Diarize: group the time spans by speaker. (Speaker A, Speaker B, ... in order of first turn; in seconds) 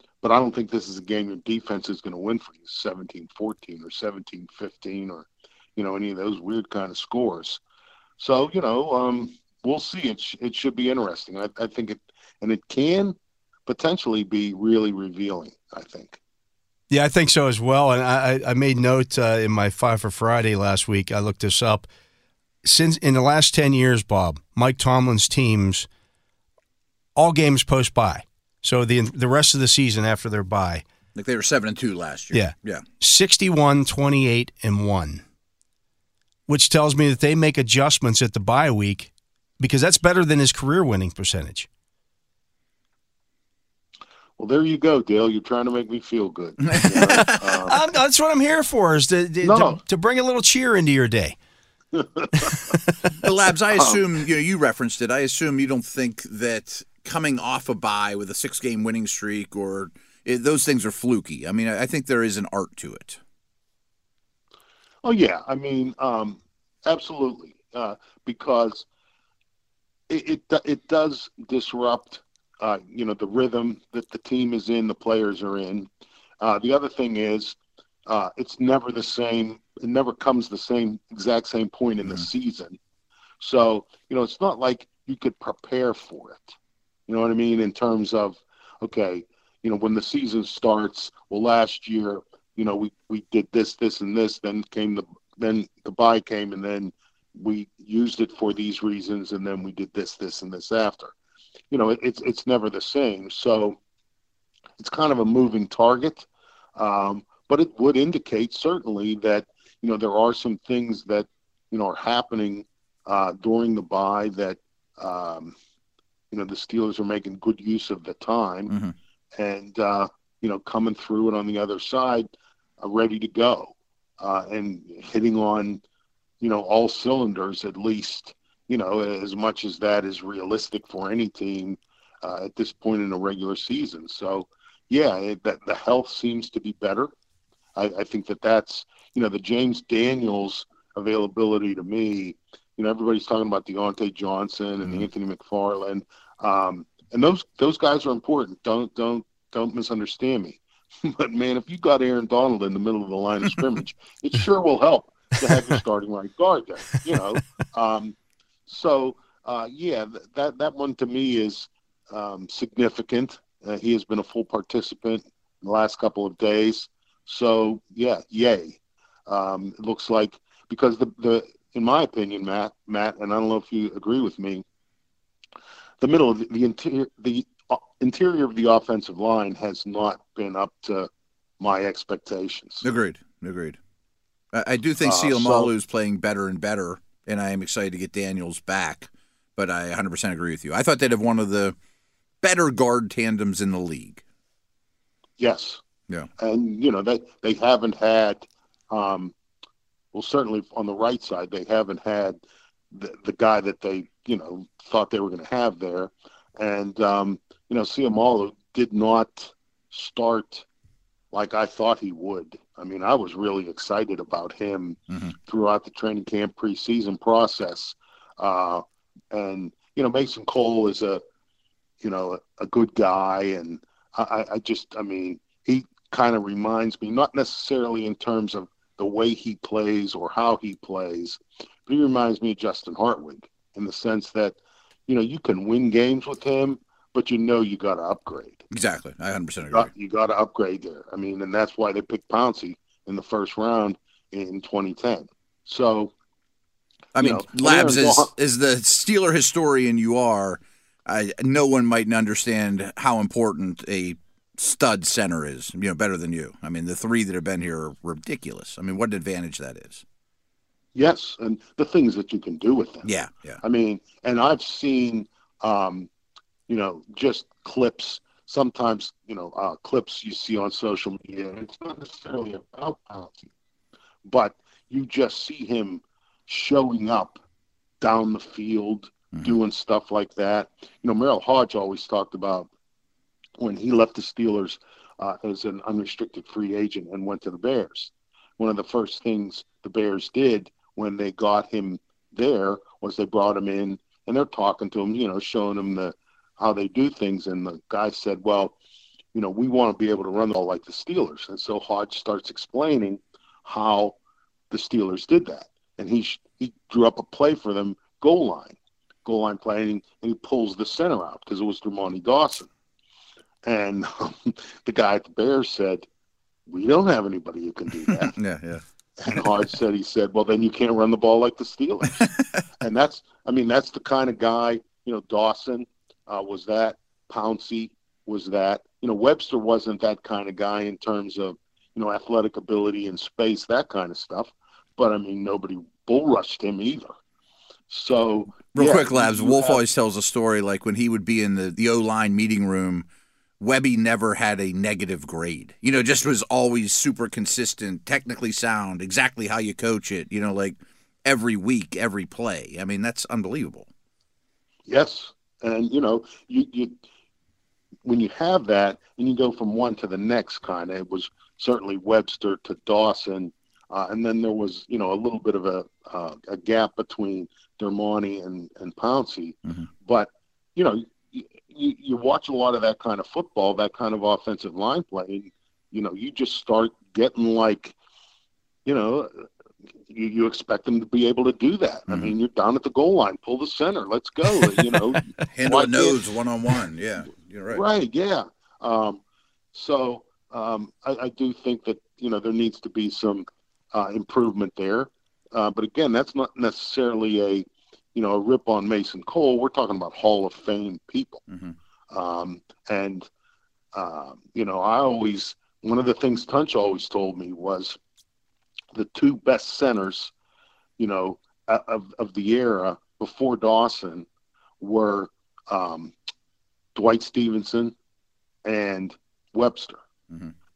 Speaker A: 0.2-7.6, 8.2-16.2, 44.4-47.8, 49.4-49.8, 51.9-52.6, 65.0-68.8, 70.1-75.9, 76.4-82.8, 83.4-86.5, 87.1-101.1, 101.7-103.8, 104.8-115.5, 116.3-118.7, 119.4-122.3, 122.8-125.8, 126.4-137.1, 137.8-158.1, 158.7-174.6, 176.0-181.1, 181.6-182.8, 185.0-185.7, 195.4-195.8, 196.4-199.3, 200.1-202.4, 202.9-210.6, 211.3-221.2, 222.0-238.6, 239.7-246.1, 247.2-248.3, 260.9-263.1, 263.6-266.1, 266.7-273.5, 274.2-277.4, 278.0-282.7, 283.6-298.7, 299.3-304.1, 304.7-312.7, 313.6-316.0, 316.7-318.3, 319.2-337.1, 337.9-339.8, 354.9-357.0, 358.0-377.9, 378.8-379.4, 380.1-386.2, 387.7-389.2, 389.7-401.4, 402.1-403.3, 403.9-408.0, 408.9-410.3, 411.0-414.2, 414.8-416.1, 416.9-417.9, 418.6-420.0
Speaker B: 16.9-21.9, 22.6-25.9, 27.1-30.8, 32.3-35.2, 36.5-41.7, 47.0-51.4, 52.4-53.0
Speaker C: 31.1-32.8, 46.8-47.6, 53.2-63.2, 182.8-183.8, 184.5-191.8, 192.4-194.2, 238.7-239.9, 247.1-260.0, 263.0-263.6, 318.1-319.4, 338.7-343.1, 343.6-353.9, 382.1-382.3, 385.5-387.8, 401.5-401.7